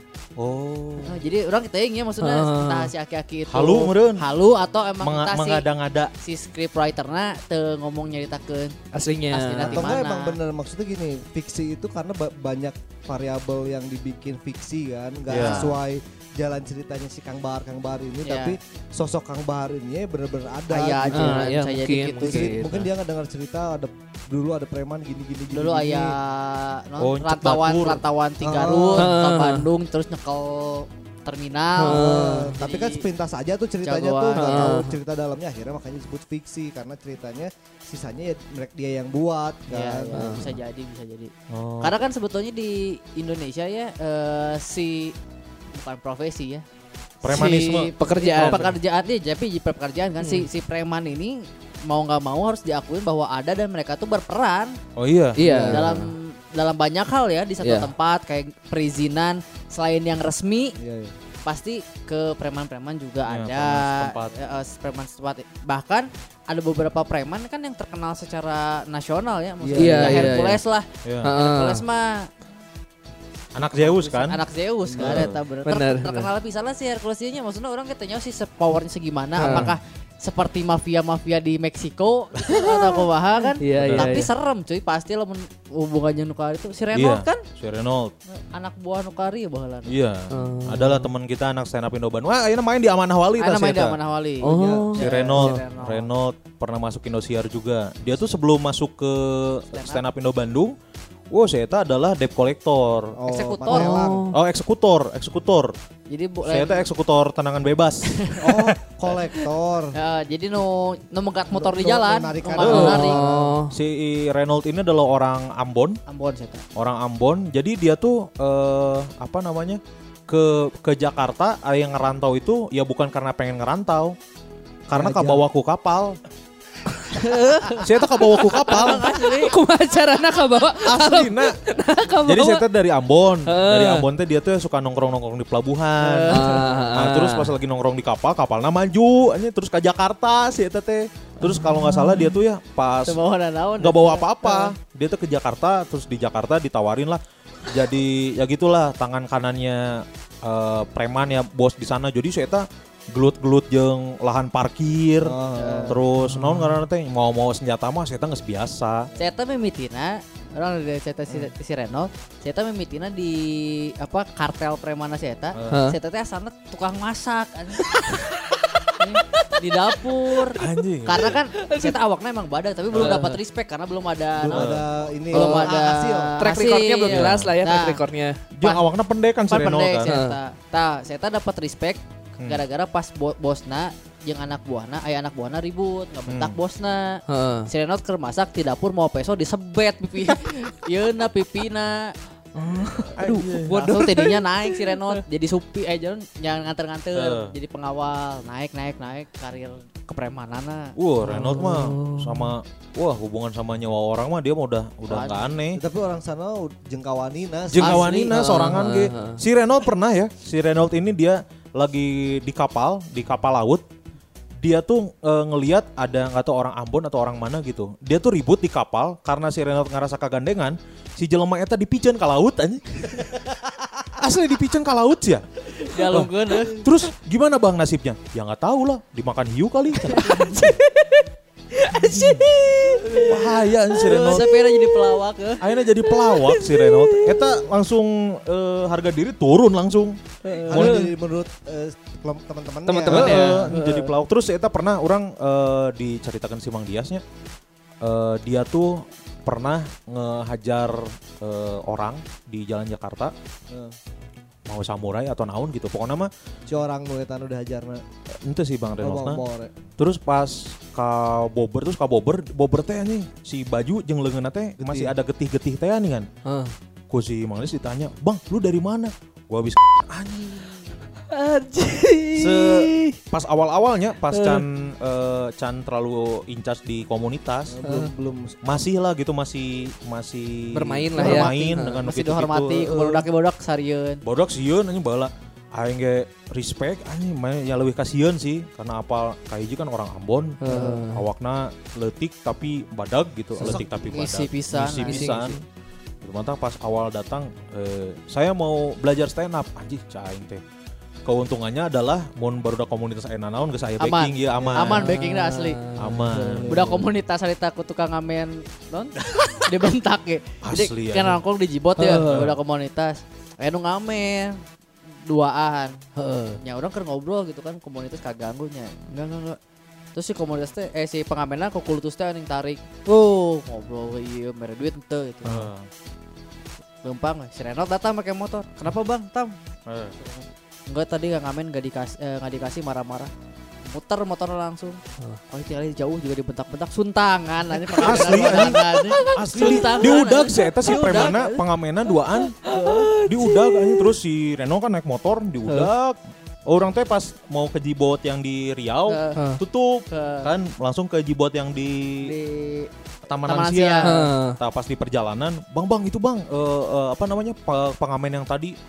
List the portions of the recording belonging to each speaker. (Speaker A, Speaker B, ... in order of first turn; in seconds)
Speaker A: 0.4-1.2, 3.5-4.2, 5.0-6.1, 15.3-15.7, 27.0-28.0, 41.5-41.9, 47.2-48.7, 55.0-55.4, 63.2-64.3, 71.0-71.3, 73.5-74.4, 75.0-75.3, 79.5-79.8, 83.7-84.1, 86.9-88.1, 89.9-94.0, 95.0-100.7, 101.3-103.2, 104.3-105.7, 106.5-108.1, 112.6-113.0, 113.7-116.0, 116.8-124.2, 124.9-126.2, 127.8-129.1, 130.8-131.6, 132.2-143.2, 143.8-155.3, 155.9-159.1, 165.5-165.8, 170.6-171.3, 174.5-174.8, 177.1-177.5, 178.5-180.1, 186.3-186.6, 193.2-194.1, 197.1-197.5, 201.0-205.8, 207.7-213.8, 214.6-223.5, 224.1-230.7, 232.1-232.4, 233.2-234.5, 235.6-240.2, 240.7-241.0, 243.1-247.2, 248.0-253.3, 254.7-256.3, 258.4-259.4, 260.0-266.3, 267.1-270.9, 272.4-277.8, 278.6-283.1, 284.2-295.6, 296.2-300.6, 301.2-305.1, 306.0-306.8, 310.6-311.4, 312.2-312.6, 325.4-325.9, 329.9-330.1, 337.9-352.3, 353.3-358.7
Speaker B: 1.0-5.6, 6.2-8.8, 9.3-10.4, 15.3-15.8, 18.2-18.6, 20.7-22.6, 25.5-33.0, 33.8-34.7, 39.7-45.1, 45.7-46.6, 47.2-54.8, 55.7-60.8, 61.5-72.3, 73.8-87.4, 88.3-89.9, 93.4-96.1, 99.7-100.0, 103.3-104.0, 106.1-106.8, 108.1-108.7, 109.9-113.2, 116.1-116.6, 127.2-129.6, 136.0-136.8, 143.1-144.7, 155.5-156.0, 159.2-168.3, 168.9-174.8, 175.3-178.0, 179.5-192.1, 193.7-200.9, 205.1-205.5, 207.8-208.3, 225.7-226.8, 230.1-230.8, 231.9-235.6, 243.8-244.1, 281.2-284.2, 290.7-291.0, 293.6-295.4, 304.0-305.8, 306.7-314.6, 315.2-319.6, 320.1-325.7, 327.0-329.5, 330.2-333.3, 333.9-341.6, 342.6-343.1, 349.1-349.4, 350.1-350.5, 352.2-352.9, 353.4-354.1
Speaker C: 2.2-2.9, 8.9-9.9, 21.1-22.9, 28.9-29.7, 31.8-32.6, 34.3-34.9, 40.1-40.5, 47.4-48.7, 50.2-50.5, 55.4-56.1, 57.6-57.9, 69.8-70.6, 71.2-71.8, 75.6-76.3, 79.4-79.7, 83.6-84.3, 90.3-91.1, 94.4-95.6, 103.7-104.4, 112.6-113.7, 127.0-132.6, 133.4-134.0, 136.3-137.5, 141.4-142.4, 156.2-156.8, 165.7-166.0, 167.9-168.7, 170.3-170.7, 171.5-172.0, 172.9-173.4, 175.3-175.7, 176.4-178.4, 180.1-180.4, 187.3-187.7, 192.5-194.9, 201.2-202.6, 208.3-209.4, 230.1-231.0, 231.8-233.4, 234.0-235.2, 236.1-237.6, 240.5-241.1, 242.9-243.8, 266.4-266.7, 271.3-273.1, 274.3-274.6, 277.8-278.1, 280.7-282.0, 290.6-291.2, 293.6-293.8, 295.0-295.6, 304.9-307.0, 312.0-312.5, 316.1-316.6, 337.9-340.1, 340.8-341.4, 342.6-344.1, 349.4-349.6, 354.0-354.6
Speaker D: 9.6-21.5, 22.2-26.1, 28.4-29.1, 31.9-40.4, 55.4-55.8, 60.8-61.1, 69.6-70.4, 74.9-75.3, 94.4-95.0, 103.1-104.3, 108.4-109.9, 111.5-113.6, 124.9-125.4, 155.2-156.0, 174.4-176.3, 205.7-208.1, 240.5-243.7, 256.7-258.0, 259.0-259.7, 264.8-265.1, 277.7-278.6